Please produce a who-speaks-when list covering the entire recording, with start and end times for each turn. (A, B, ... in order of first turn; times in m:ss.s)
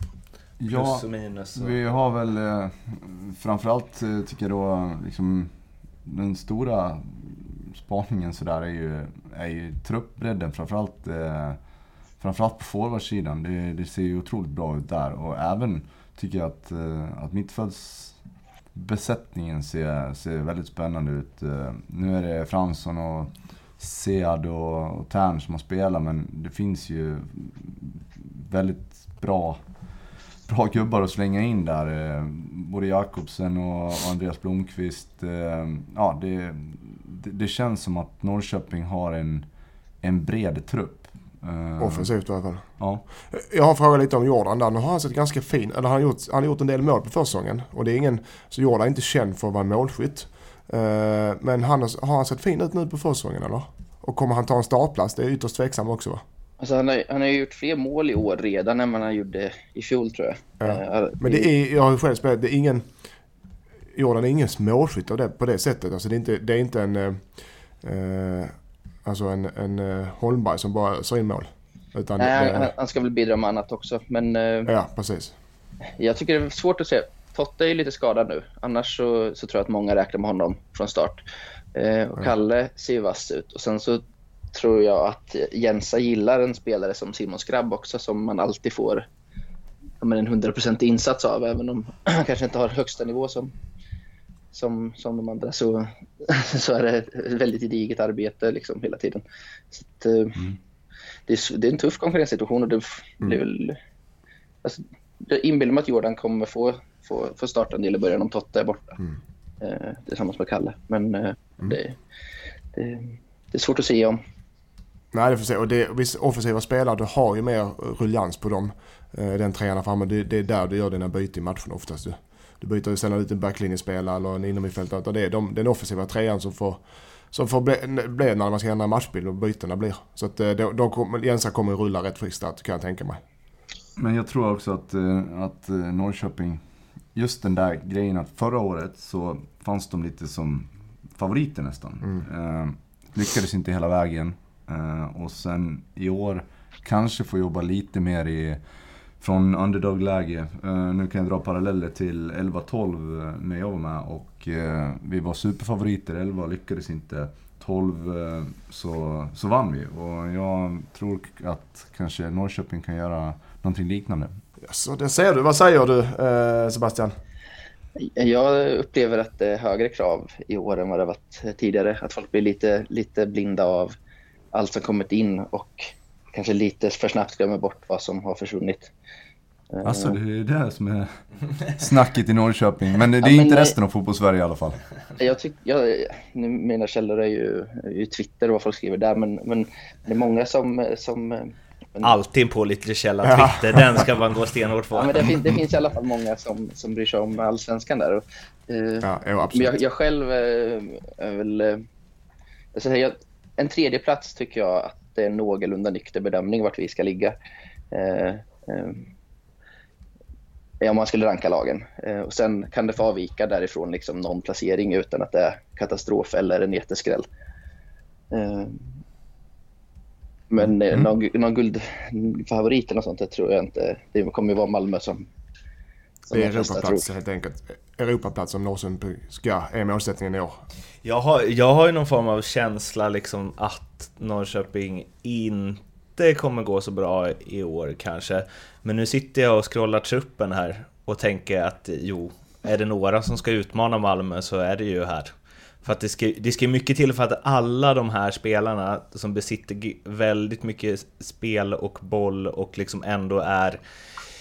0:00.6-0:39.5 A
0:00.7-0:01.8 B
0:40.0-0:42.1 A
0:41.8-0:56.2 C
0:42.8-0:43.0 A
0:56.6-1:01.5 D
1:00.6-1:02.9 C
1:04.0-1:12.7 C
1:12.2-1:14.7 D
1:14.6-1:15.3 C
1:16.0-1:21.2 D
1:21.7-1:29.1 D
1:30.0-1:33.5 D
1:34.5-1:40.5 D
1:41.3-1:43.8 D
1:44.6-1:49.0 D
1:49.6-1:52.0 D
1:52.7-1:54.2 D
1:55.1-2:13.2 C
2:14.0-2:44.4 A
2:44.6-2:47.1 C
2:48.0-2:53.9 D
2:54.5-2:58.9 D
2:59.7-3:00.2 D
2:59.8-3:04.8 A
3:03.2-3:03.7 D
3:05.2-3:12.1 D
3:12.0-3:15.4 B
3:13.2-3:13.8 C
3:14.9-3:21.8 D
3:19.0-3:19.8 C
3:22.7-3:27.3 D
3:27.9-3:29.1 D
3:30.8-3:37.3 D
3:38.3-3:38.8 D
3:40.5-3:45.3 D
3:46.3-3:47.0 D
3:46.3-3:50.6 C
3:51.0-4:13.8 B